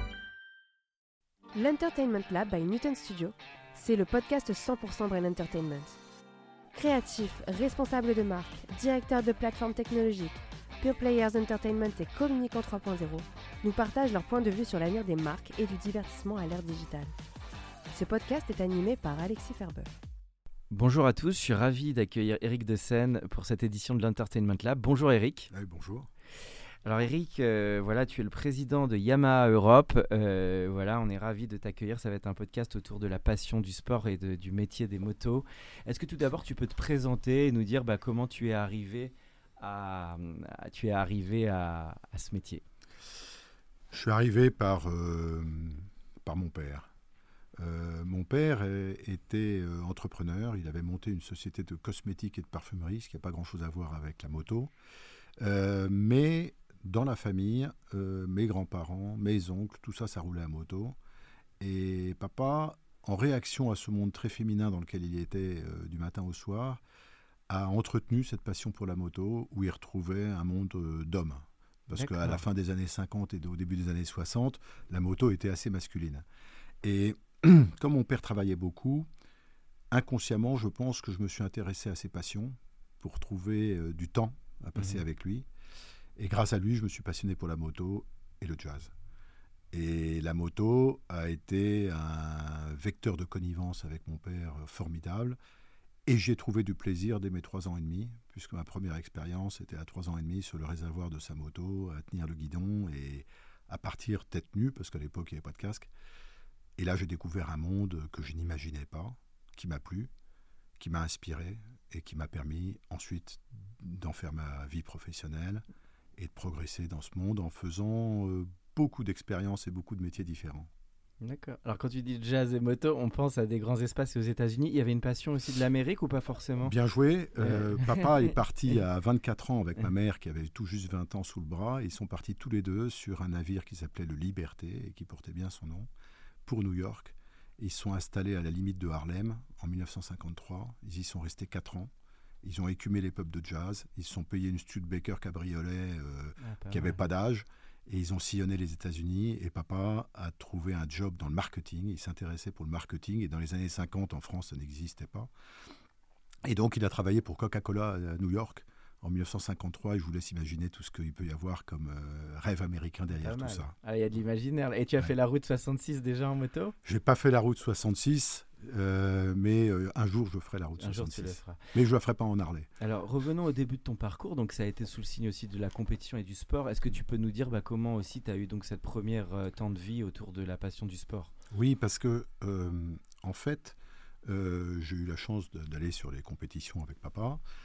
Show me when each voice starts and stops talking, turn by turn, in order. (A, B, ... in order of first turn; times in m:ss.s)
0:01.5-0:05.9 A
0:06.7-0:17.1 A
0:17.9-0:19.9 A
0:20.7-0:25.5 B
0:25.5-0:26.1 C
0:26.8-0:42.6 B
0:43.9-0:46.9 C
0:47.6-0:54.7 C
0:55.4-1:01.0 C
1:01.6-1:06.8 C
1:07.5-1:16.2 C
1:11.9-1:12.4 B
1:16.8-1:19.1 C
1:19.9-1:25.5 C
1:26.2-1:28.9 C
1:29.7-1:35.4 C
1:36.0-1:45.9 C
1:46.8-1:50.1 C
1:50.8-1:55.6 C
1:56.2-2:00.7 C
2:01.2-2:06.7 B
2:06.6-2:15.9 C
2:07.4-2:08.3 B
2:16.4-2:21.9 C
2:22.4-2:35.3 C
2:26.4-2:27.0 B
2:36.4-2:43.7 C
2:43.1-2:46.7 B
2:46.8-2:52.7 C
2:50.8-2:51.6 B
2:52.8-3:01.3 B
3:01.5-3:07.4 C